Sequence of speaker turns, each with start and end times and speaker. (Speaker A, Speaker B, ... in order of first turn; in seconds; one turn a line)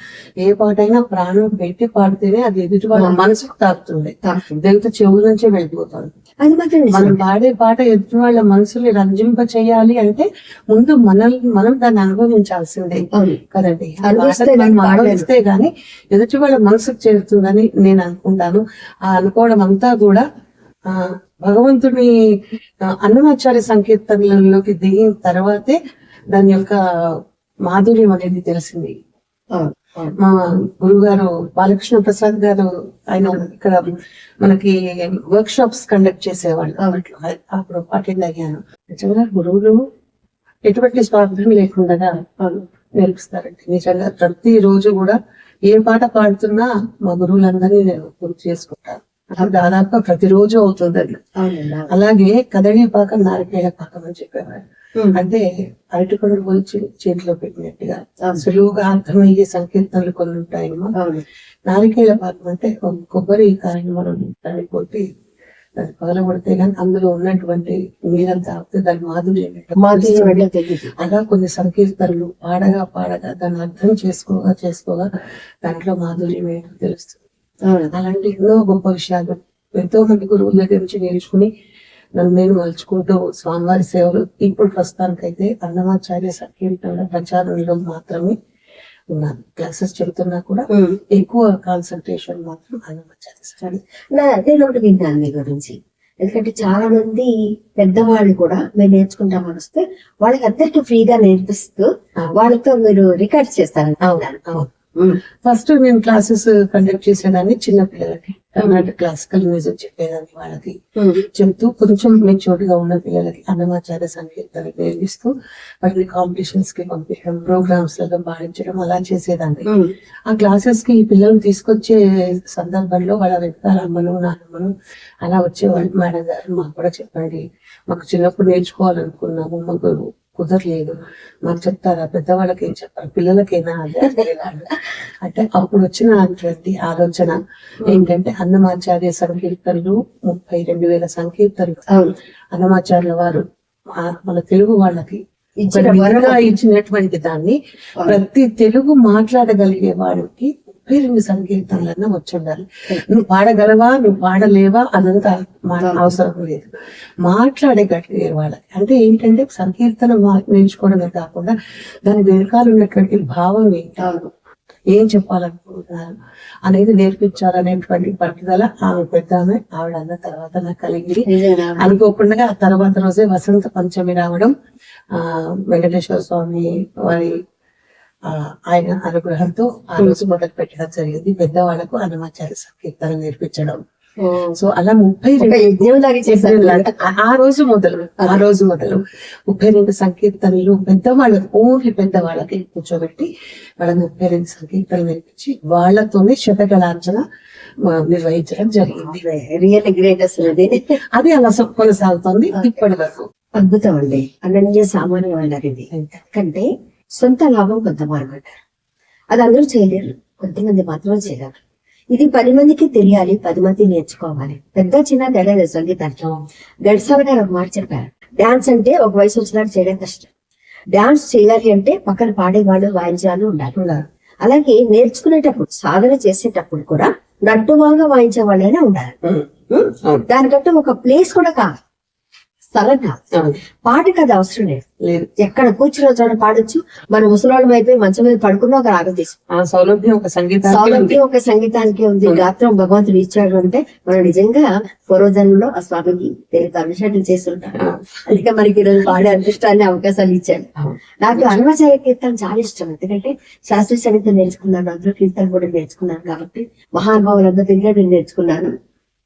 Speaker A: 0.4-6.1
Speaker B: 2.9-3.2
Speaker B: 4.2-4.6
Speaker B: 6.4-7.2
Speaker A: 6.9-20.2
Speaker B: 13.1-13.4
Speaker B: 14.0-15.2
Speaker A: 20.9-22.1
Speaker A: 22.8-25.8
Speaker A: 26.3-29.0
Speaker B: 29.5-30.1
Speaker A: 30.2-39.8
Speaker A: 40.6-42.2
Speaker B: 42.4-42.6
Speaker A: 43.0-51.2
Speaker B: 51.4-51.9
Speaker A: 51.9-54.6
Speaker A: 55.1-60.9
Speaker B: 61.0-61.2
Speaker A: 61.7-65.1
Speaker A: 65.8-70.4
Speaker B: 69.8-70.9
Speaker A: 71.0-75.1
Speaker A: 75.6-77.2
Speaker B: 77.6-77.9
Speaker A: 77.9-81.5
Speaker A: 82.2-88.3
Speaker A: 89.1-93.8
Speaker B: 90.7-91.0
Speaker B: 94.1-105.2
Speaker A: 104.0-104.7
Speaker A: 105.4-119.7
Speaker B: 111.0-111.2
Speaker B: 119.7-119.9
Speaker A: 120.3-124.7
Speaker A: 125.2-134.7
Speaker A: 135.2-141.8
Speaker B: 141.9-142.1
Speaker A: 142.5-145.2
Speaker B: 145.6-146.5
Speaker A: 145.7-156.7
Speaker A: 157.2-164.0
Speaker B: 164.0-164.3
Speaker A: 164.9-166.1
Speaker A: 166.7-174.5
Speaker B: 171.2-171.8
Speaker A: 175.1-177.4
Speaker A: 178.2-183.8
Speaker B: 180.0-180.2
Speaker B: 184.2-184.6
Speaker A: 184.5-185.6
Speaker B: 185.4-187.1
Speaker A: 186.2-197.2
Speaker A: 197.8-199.2
Speaker B: 199.0-201.0
Speaker A: 201.1-203.3
Speaker B: 202.5-202.8
Speaker B: 203.6-208.6
Speaker A: 205.9-206.2
Speaker B: 209.3-211.6
Speaker B: 212.1-216.2
Speaker B: 216.8-220.3
Speaker B: 220.9-223.8
Speaker A: 223.8-224.0
Speaker B: 224.4-229.2
Speaker A: 229.2-229.5
Speaker B: 229.7-231.7
Speaker B: 232.7-233.2
Speaker B: 233.8-234.8
Speaker A: 235.0-235.3
Speaker B: 235.4-239.4
Speaker A: 239.5-241.2
Speaker B: 240.7-250.7
Speaker B: 251.2-258.7